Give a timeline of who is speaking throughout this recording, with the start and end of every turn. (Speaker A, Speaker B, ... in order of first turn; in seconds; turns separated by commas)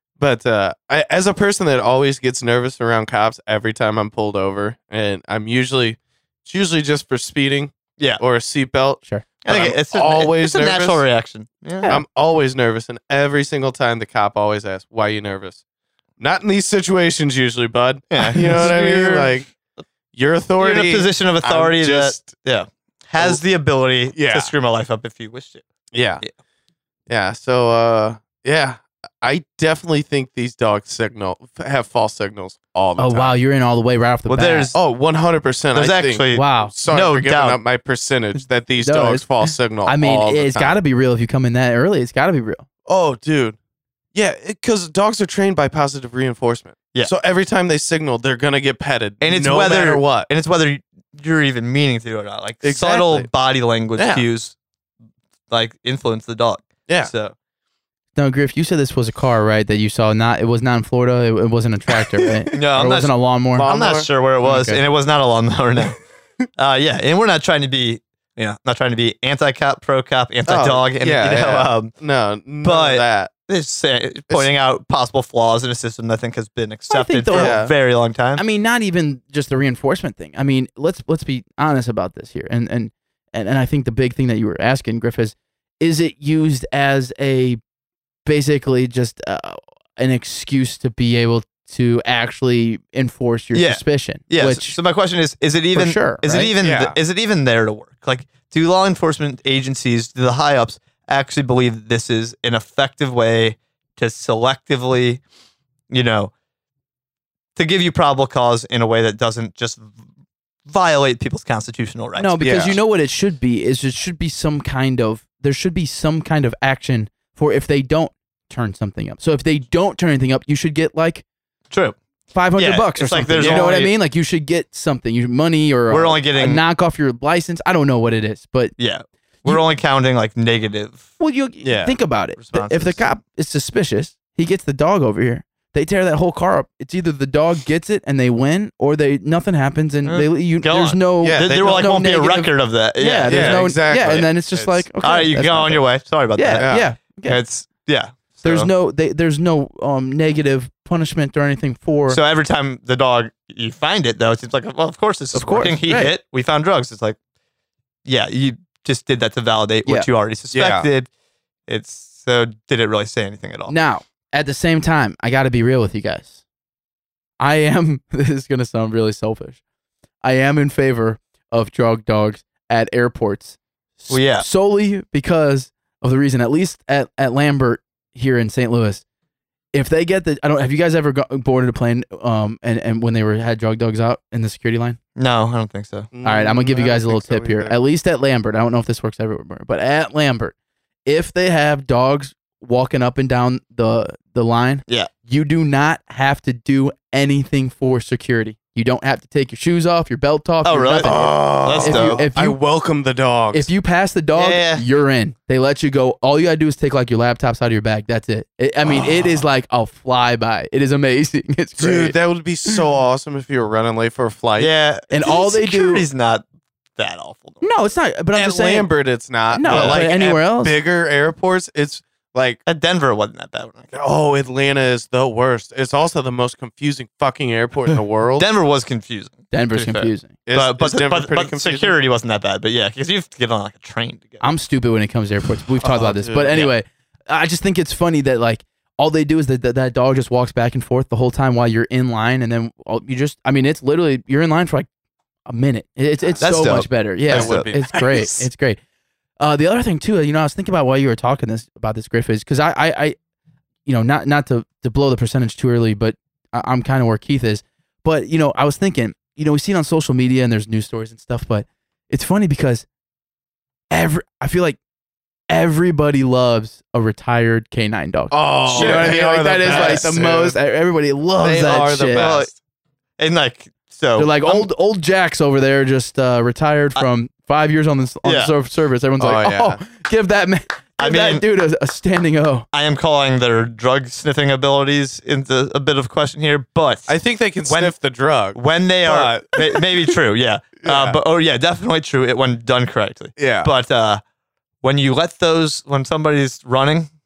Speaker A: 0.2-11.0, Speaker B: 9.4-11.9, Speaker A: 11.8-15.6, Speaker A: 16.2-19.5, Speaker B: 18.1-19.8, Speaker A: 20.1-22.3, Speaker B: 20.6-25.6, Speaker A: 24.1-24.5, Speaker A: 25.9-26.2, Speaker A: 27.1-33.4, Speaker C: 33.0-34.7, Speaker B: 34.3-34.8, Speaker A: 34.7-40.8, Speaker B: 35.7-37.6, Speaker C: 36.3-36.7, Speaker C: 38.8-42.6, Speaker A: 42.9-43.6, Speaker A: 44.1-50.3, Speaker B: 49.2-54.5, Speaker A: 52.6-53.3, Speaker A: 53.9-54.2, Speaker B: 55.5-57.3, Speaker A: 56.9-57.1, Speaker C: 58.1-63.7, Speaker A: 61.9-62.5, Speaker B: 62.5-63.1, Speaker A: 63.5-64.1, Speaker B: 63.6-66.0, Speaker C: 64.4-64.8, Speaker B: 66.5-71.9, Speaker A: 70.5-73.3, Speaker B: 72.6-78.4, Speaker C: 76.9-77.6, Speaker A: 77.3-77.7, Speaker C: 78.3-87.6, Speaker C: 88.2-94.8, Speaker B: 93.5-105.2, Speaker C: 95.7-96.5, Speaker A: 96.6-97.0, Speaker B: 105.9-106.3, Speaker B: 107.5-109.9, Speaker B: 110.7-112.3, Speaker C: 112.1-121.2, Speaker A: 112.4-112.8, Speaker B: 121.7-122.0, Speaker C: 122.3-128.7, Speaker B: 122.5-123.9, Speaker A: 123.4-123.7, Speaker B: 125.9-126.6, Speaker B: 128.8-131.1, Speaker C: 131.2-147.4, Speaker A: 131.6-131.9, Speaker B: 132.4-133.1, Speaker B: 140.0-143.7, Speaker A: 141.2-141.8, Speaker A: 143.3-144.8, Speaker B: 145.0-148.7, Speaker A: 146.6-146.9, Speaker C: 148.4-152.2, Speaker B: 152.1-157.2, Speaker C: 155.3-156.1, Speaker B: 158.0-161.1, Speaker A: 160.5-160.9, Speaker B: 161.7-163.8, Speaker C: 163.7-166.4, Speaker C: 167.4-169.6, Speaker C: 170.2-179.0, Speaker B: 174.1-174.5, Speaker C: 179.7-185.0, Speaker B: 185.2-186.1, Speaker A: 186.1-187.8, Speaker C: 186.2-190.5, Speaker C: 191.1-202.6, Speaker B: 200.6-202.2, Speaker A: 201.0-203.7, Speaker C: 203.5-212.2, Speaker B: 204.3-204.8, Speaker A: 208.8-209.4, Speaker A: 211.8-214.7, Speaker B: 214.6-216.4, Speaker C: 215.1-216.1, Speaker B: 217.0-217.7, Speaker C: 217.6-218.9, Speaker A: 218.3-222.6, Speaker C: 219.5-220.8, Speaker B: 219.6-220.1, Speaker B: 222.7-223.9, Speaker A: 223.9-228.5, Speaker B: 228.4-234.4, Speaker C: 229.5-230.3, Speaker A: 230.4-231.9, Speaker C: 234.4-244.9, Speaker A: 235.8-236.7, Speaker C: 245.5-248.8, Speaker A: 246.2-248.5, Speaker B: 246.4-247.7, Speaker C: 249.4-253.2, Speaker C: 253.8-262.9, Speaker C: 263.9-264.8, Speaker C: 265.5-272.3, Speaker A: 268.3-270.6, Speaker B: 268.7-270.1, Speaker A: 271.4-272.6, Speaker B: 272.1-272.5, Speaker B: 273.2-274.7, Speaker C: 274.1-282.6, Speaker B: 278.2-278.5, Speaker A: 279.2-279.8, Speaker B: 281.0-281.4, Speaker B: 282.7-287.9, Speaker A: 287.1-290.1, Speaker B: 288.5-294.2, Speaker A: 290.8-291.2, Speaker A: 293.4-293.7, Speaker B: 294.8-297.1